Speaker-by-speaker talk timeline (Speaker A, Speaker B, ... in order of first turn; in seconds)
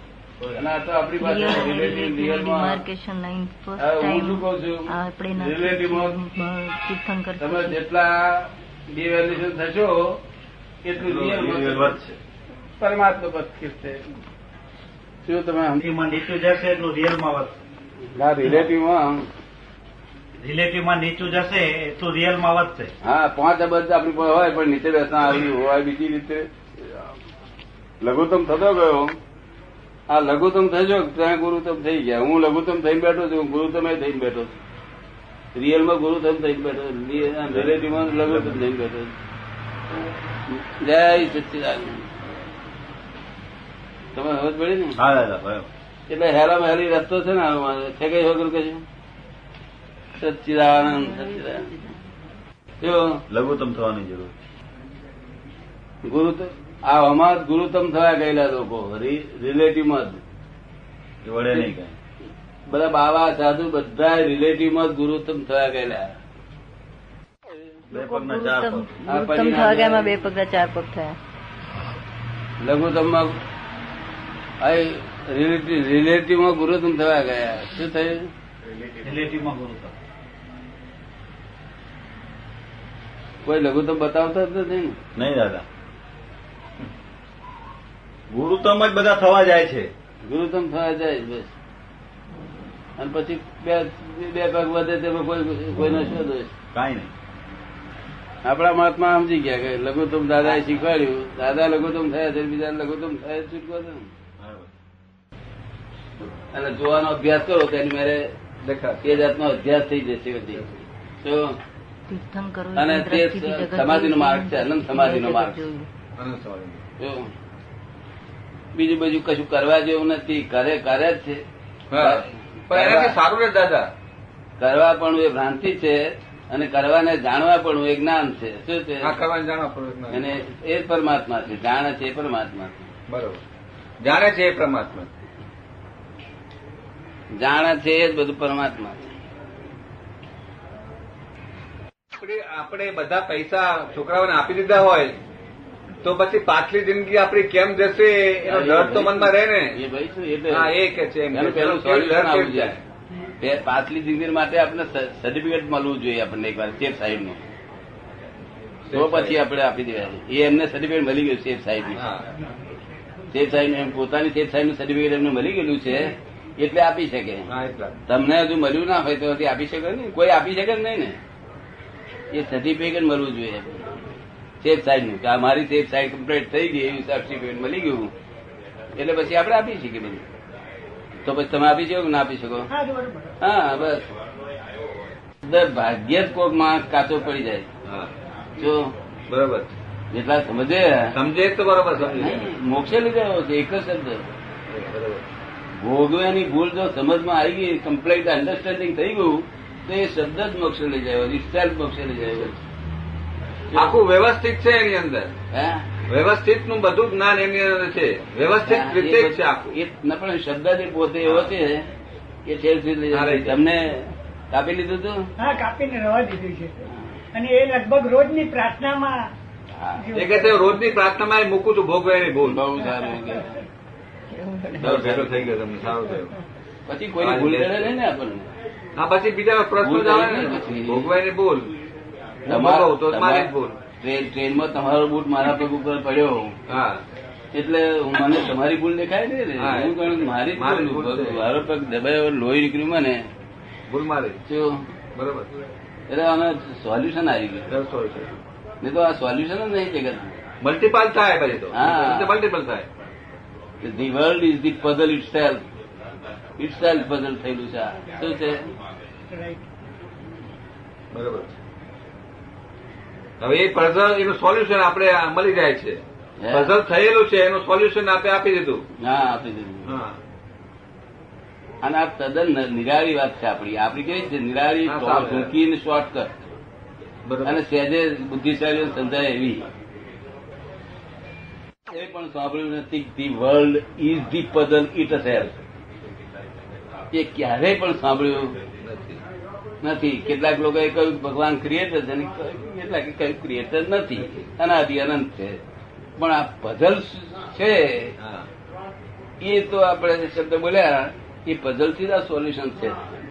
Speaker A: 0.5-2.8, 3.8-6.1, 7.4-10.2, 10.8-12.1, 12.8-14.1, 15.2-15.9, 18.1-19.3, 23.0-27.2, 28.0-29.2, 30.1-34.5, 35.5-39.1, 40.5-42.1, 44.1-45.0, 46.1-48.8, 50.2-51.7, 52.8-53.2, 56.1-60.2, 62.7-66.2, 69.1-70.1, 72.6-73.4, 74.6-78.3, 83.4-85.0, 90.2-91.5, 93.0-96.5, 98.5-104.1, 106.5-108.3, 109.0-111.6, 112.8-115.6, 117.0-117.3, 118.7-121.4, 122.0-123.2, 124.6-129.2, 130.1-132.9, 137.3-139.1, 148.4-150.7, 151.3-152.8, 153.4-157.4, 158.9-162.1, 163.3-167.5, 168.1-171.2, 172.3-174.0, 174.6-178.1, 179.0-180.2, 181.2-182.7, 183.4-184.1, 185.4-187.7, 188.6-188.9, 190.1-191.2, 192.0-194.2, 195.8-202.6, 203.7-204.0, 205.5-205.9, 208.6-211.9, 212.5-215.3, 216.9-217.1, 219.7-220.1, 222.4-223.6, 224.7-225.6, 226.9-228.5, 229.8-231.2, 232.5-236.7, 237.5-243.2, 244.5-244.9, 246.1-247.7, 248.8-250.3, 251.7-252.4, 253.8-255.6, 256.6-258.7, 266.4-266.8, 269.0-269.9, 271.8-276.4, 277.4-279.7, 281.9-285.6, 287.1-288.6, 289.8-295.6, 296.2-298.1, 299.4-303.2
Speaker B: 1.2-7.8, 50.7-52.1, 67.9-71.2, 112.1-115.9, 224.3-224.8
Speaker C: 10.9-12.1, 15.8-17.5, 20.4-22.9, 37.5-38.6, 45.0-45.7, 53.3-54.3, 61.2-62.0, 67.9-69.0, 78.7-79.9, 85.2-85.7, 88.3-89.9, 96.7-97.1, 104.4-104.7
Speaker D: 108.6-109.2, 116.2-116.8, 121.9-123.9, 129.0-130.2, 133.1-133.4, 134.0-135.1, 142.2-145.2, 146.0-149.8, 150.5-152.8, 158.9-159.4, 161.9-162.3, 167.5-168.0, 187.8-188.1, 189.3-189.8, 191.1-192.5, 194.7-195.3, 203.7-205.3, 206.1-209.7, 211.2-211.5, 213.1-213.6, 220.1-222.6, 224.8-226.4, 227.2-227.9, 229.0-231.8, 232.5-233.8, 236.7-237.0, 239.6-241.4, 243.9-244.4, 245.2-245.5, 247.7-248.4, 250.6-252.9, 261.1-261.6, 263.4-268.8, 269.9-270.2, 274.9-275.5, 277.2-277.6, 288.8-289.2, 298.2-298.5
Speaker E: 182.7-183.3, 215.4-216.8, 217.3-219.3, 220.0-220.6, 259.3-259.6